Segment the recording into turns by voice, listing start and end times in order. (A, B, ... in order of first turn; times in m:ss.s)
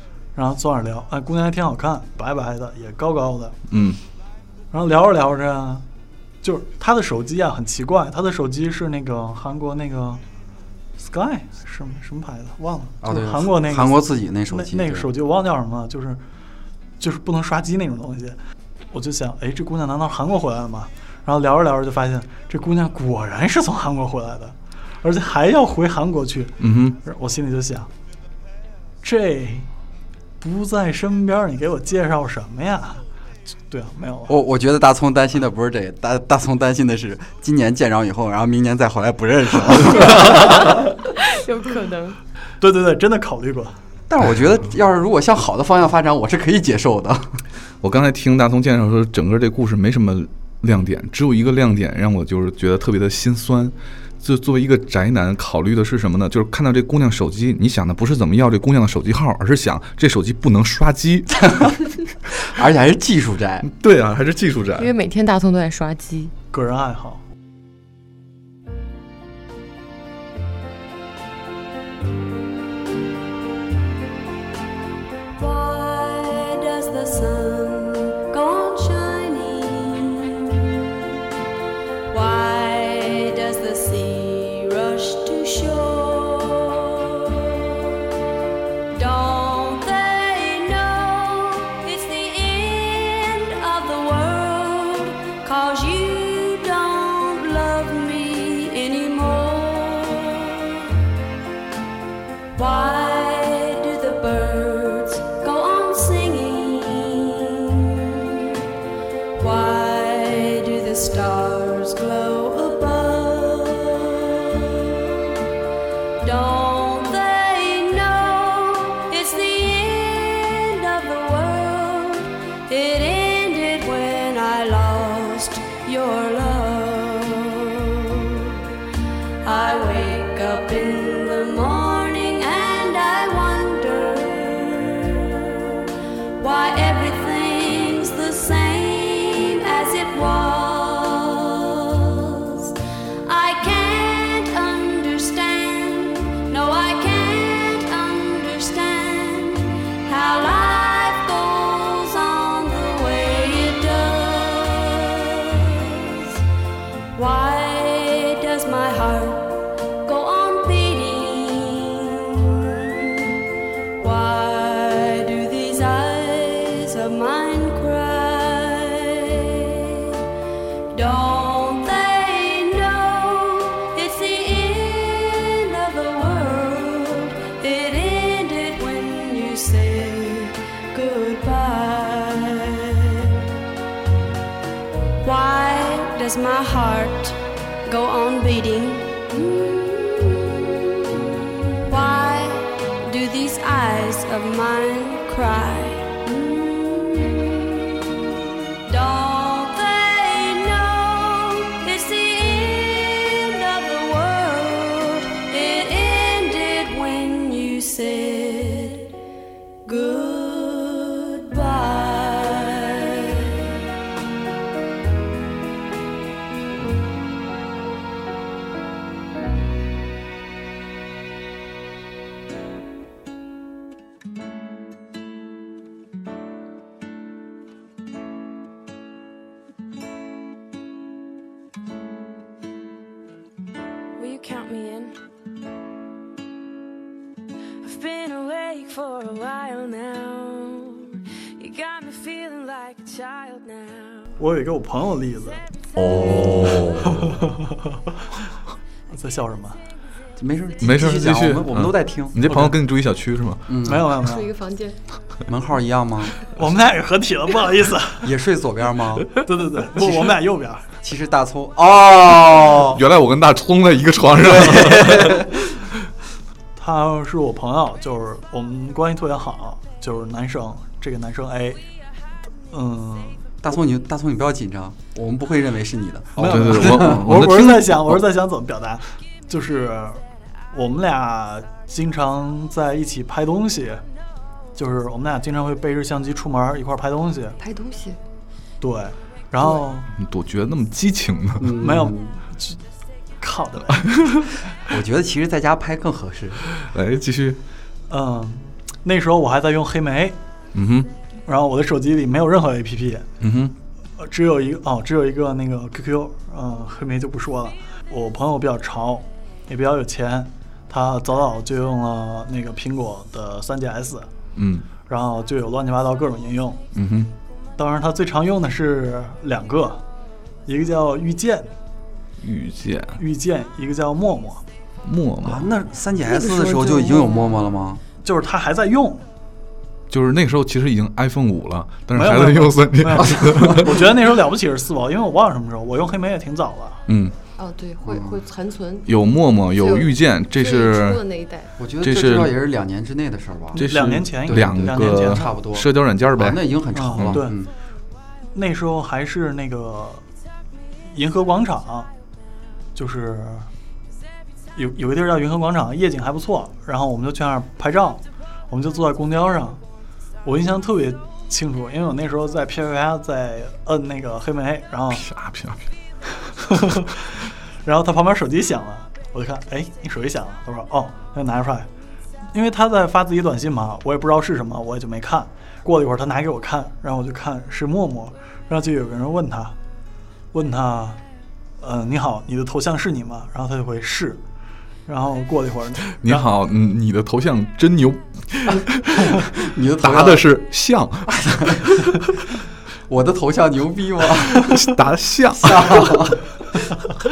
0:00.4-0:03.6 A
0:03.7-0:04.0 B
0:04.7-0:05.8 A
0:06.4-0:10.2 A
0:11.0-0:16.2 A
0:13.0-0:15.1 C
0:17.0-0:18.4 A
0:18.9-0:27.9 A
0:26.6-0:27.0 B
0:29.0-0:29.7 A
0:30.4-0:33.0 A
0:33.7-0:34.4 A
0:34.3-0:40.8 C
0:41.1-0:42.2 D
0:42.6-0:43.8 A
0:44.1-0:47.4 C
0:47.8-1:01.5 B
1:01.4-1:01.7 C
1:02.4-1:03.7 C
1:03.6-1:04.9 B
1:04.8-1:06.3 D
1:06.5-1:07.2 A
1:15.4-1:20.6 E
1:22.1-1:27.5 E
1:28.9-1:40.9 E
1:42.5-1:48.5 E
1:49.4-1:54.8 E
1:56.2-2:08.6 E
2:09.4-2:15.9 E
2:16.4-2:36.4 E
2:37.1-2:43.4 E
2:44.0-2:50.2 E
2:50.9-3:03.4 E
3:05.2-3:11.2 E
3:11.8-3:18.0 E
3:18.9-3:29.1 E
3:29.8-3:33.7 E
3:54.2-3:55.2 E
3:57.8-4:04.3 E
4:04.4-4:05.6 A
4:06.0-4:07.4 B
4:06.9-4:08.0 A
4:09.1-4:09.8 A
4:10.4-4:12.4 C
4:10.8-4:13.8 B
4:12.5-4:12.8 A
4:13.7-4:14.1 C
4:13.8-4:14.5 A
4:14.2-4:15.0 D
4:15.5-4:16.4 C
4:16.5-4:18.3 A
4:18.2-4:19.4 C
4:19.4-4:20.9 A
4:20.0-4:20.3 C
4:21.0-4:23.0 C
4:22.9-4:25.5 B
4:24.4-4:25.6 C
4:26.8-4:31.8 A
4:32.7-4:33.4 A
4:33.6-4:37.2 C
4:36.4-4:44.0 A
4:36.4-4:38.2 B
4:44.8-4:47.6 A
4:47.6-4:48.2 D
4:48.8-4:50.1 A
4:50.2-4:51.8 B
4:51.6-4:52.4 C
4:51.8-4:52.8 A
4:53.4-4:54.1 A
4:54.0-4:54.4 B
4:54.9-4:56.6 C
4:56.8-4:57.6 B
4:58.1-5:00.4 A
5:00.7-5:01.1 B
5:01.5-5:03.3 A
5:03.4-5:03.8 B
5:04.2-5:14.3 A
5:14.6-5:14.9 B
5:15.1-5:16.8 A
5:17.0-5:17.3 B
5:17.8-5:20.0 A
5:20.7-5:21.7 A
5:22.4-5:23.2 B
5:23.2-5:24.6 A
5:25.0-5:25.7 B
5:25.4-5:28.0 C
5:26.3-5:27.6 D
5:28.2-5:29.2 A
5:30.1-5:34.1 B
5:32.1-5:37.0 A
5:33.4-5:33.7 C
5:37.1-5:37.4 B
5:37.6-5:39.1 D
5:38.1-5:38.4 C
5:39.1-5:41.2 B
5:39.7-5:41.7 D
5:41.8-5:43.9 C
5:42.0-5:42.6 B
5:43.7-5:45.5 A
5:43.8-5:46.6 B
5:44.5-5:47.7 C
5:46.9-5:47.6 A
5:47.1-5:47.4 B
5:48.5-5:50.2 A
5:51.1-5:52.1 A
5:53.0-5:53.7 A
5:54.8-5:59.8 A
6:00.4-6:05.2 A
6:05.1-6:07.1 B
6:06.7-6:11.9 A
6:12.5-6:19.8 A
6:20.5-6:21.2 A
6:21.8-6:24.4 A
6:25.1-6:26.5 A
6:26.2-6:29.5 B
6:29.4-6:30.4 C
6:30.0-6:32.2 B
6:31.3-6:32.0 C
6:33.1-6:34.8 C
6:34.6-6:36.3 B
6:35.6-6:36.4 C